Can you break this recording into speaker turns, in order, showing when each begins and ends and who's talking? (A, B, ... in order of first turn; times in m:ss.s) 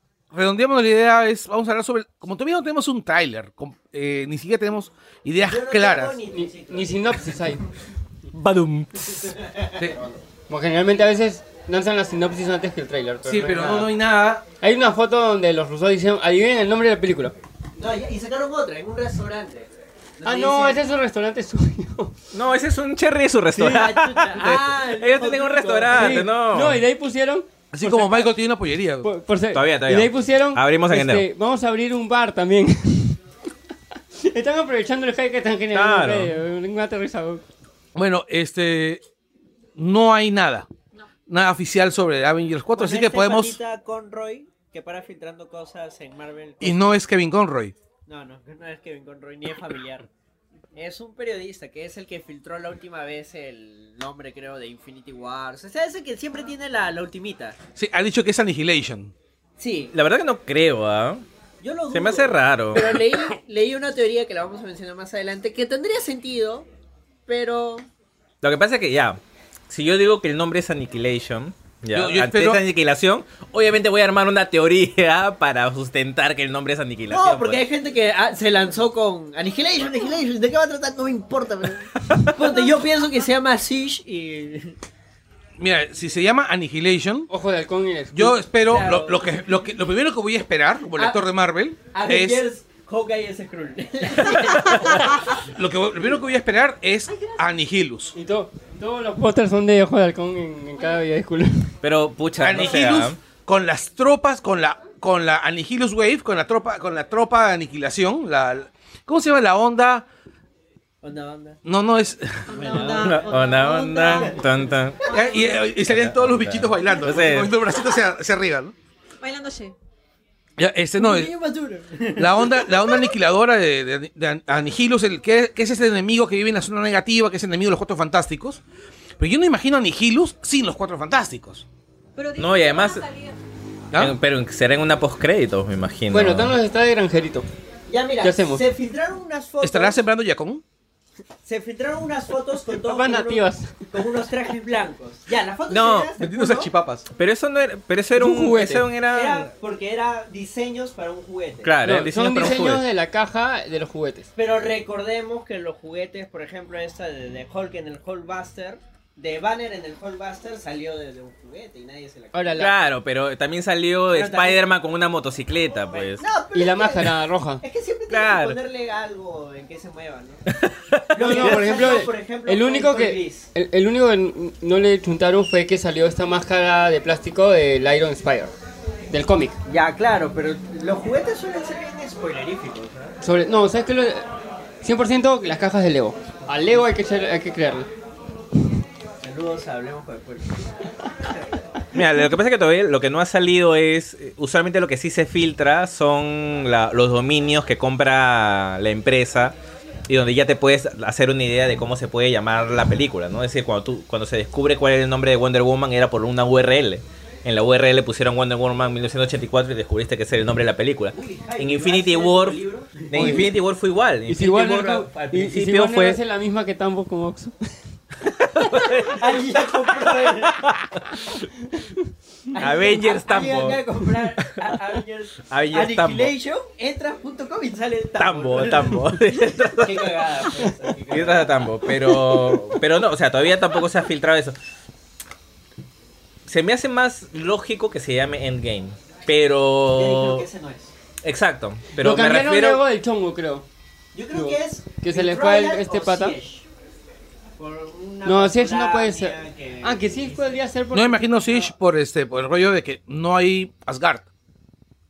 0:00.3-0:06.2 A
0:05.4-0:07.2 B
0:06.3-0:07.6 C
0:08.4-0:09.3 D
0:09.2-0:10.2 B
0:10.5-0:13.9 C
0:13.2-0:14.4 A
0:14.6-0:17.3 C
0:17.8-0:19.7 B
0:20.2-0:20.8 B
0:20.2-0:22.1 C
0:22.3-0:26.8 D
0:23.5-0:26.2 B
0:25.9-0:28.3 C
0:27.7-0:29.1 A
0:29.0-0:33.2 C
0:29.5-0:31.3 D
0:34.2-0:37.4 C
0:35.7-0:36.4 D
0:38.0-0:39.0 A
0:39.8-0:40.7 A
0:41.3-0:43.6 A
0:42.7-0:47.0 B
0:46.6-0:47.7 A
0:48.1-0:50.1 B
0:50.7-0:57.6 B
0:57.8-0:59.1 A
0:59.6-0:59.9 B
0:59.9-1:01.2 D
1:01.6-1:06.7 B
1:01.9-1:03.0 D
1:07.3-1:07.9 B
1:08.4-1:17.6 D
1:11.9-1:12.6 A
1:17.1-1:24.8 B
1:25.6-1:27.3 A
1:27.3-1:28.4 C
1:28.1-1:32.4 A
1:28.6-1:29.6 B
1:31.0-1:31.3 B
1:31.9-1:35.2 B
1:35.4-1:38.1 A
1:38.2-1:41.7 C
1:41.8-1:43.2 D
1:42.4-1:50.1 A
1:51.0-1:51.6 B
1:51.6-1:52.8 A
1:52.5-1:54.4 E
1:52.5-1:53.3 B
1:53.0-1:55.1 D
1:54.0-1:54.4 B
1:55.1-1:58.7 A
1:55.8-1:57.5 D
1:59.2-1:59.7 E
2:00.6-2:01.3 A
2:01.0-2:03.1 B
2:02.2-2:08.6 A
2:09.2-2:11.6 A
2:12.2-2:13.4 E
2:12.4-2:13.0 D
2:14.0-2:16.6 D
2:16.1-2:17.5 C
2:17.9-2:20.0 B
2:18.2-2:18.6 C
2:19.6-2:20.6 A
2:21.4-2:26.7 B
2:22.8-2:23.9 C
2:25.7-2:26.1 D
2:26.2-2:27.1 A
2:27.2-2:29.5 D
2:28.2-2:28.9 C
2:29.1-2:31.8 B
2:31.6-2:32.8 D
2:31.8-2:34.3 C
2:34.4-2:42.7 B
2:42.3-2:42.7 C
2:42.6-2:46.2 D
2:44.1-2:44.7 B
2:45.9-2:50.4 B
2:46.5-2:47.6 C
2:48.1-2:48.6 D
2:50.5-2:51.6 D
2:51.1-2:53.5 B
2:51.2-2:58.5 C
2:59.1-2:59.6 C
2:59.7-3:03.2 B
3:03.2-3:04.2 C
3:04.8-3:07.9 C
3:09.2-3:11.4 B
3:11.9-3:19.6 D
3:20.1-3:36.2 D
3:31.1-3:33.4 B
3:33.1-3:33.5 C
3:34.3-3:37.7 C
3:38.5-3:39.3 D
3:39.1-3:40.6 B
3:40.1-3:41.0 D
3:42.5-3:49.1 B
3:42.6-3:43.8 D
3:45.5-3:46.3 D
3:48.2-3:50.5 D
3:49.8-3:51.7 B
3:51.1-3:54.6 D
3:52.1-3:52.6 C
3:56.5-4:00.5 D
3:59.9-4:00.9 B
4:01.2-4:02.8 D
4:02.0-4:03.7 C
4:04.1-4:06.7 B
4:04.3-4:06.4 C
4:07.6-4:10.6 B
4:08.2-4:11.7 C
4:10.9-4:14.3 A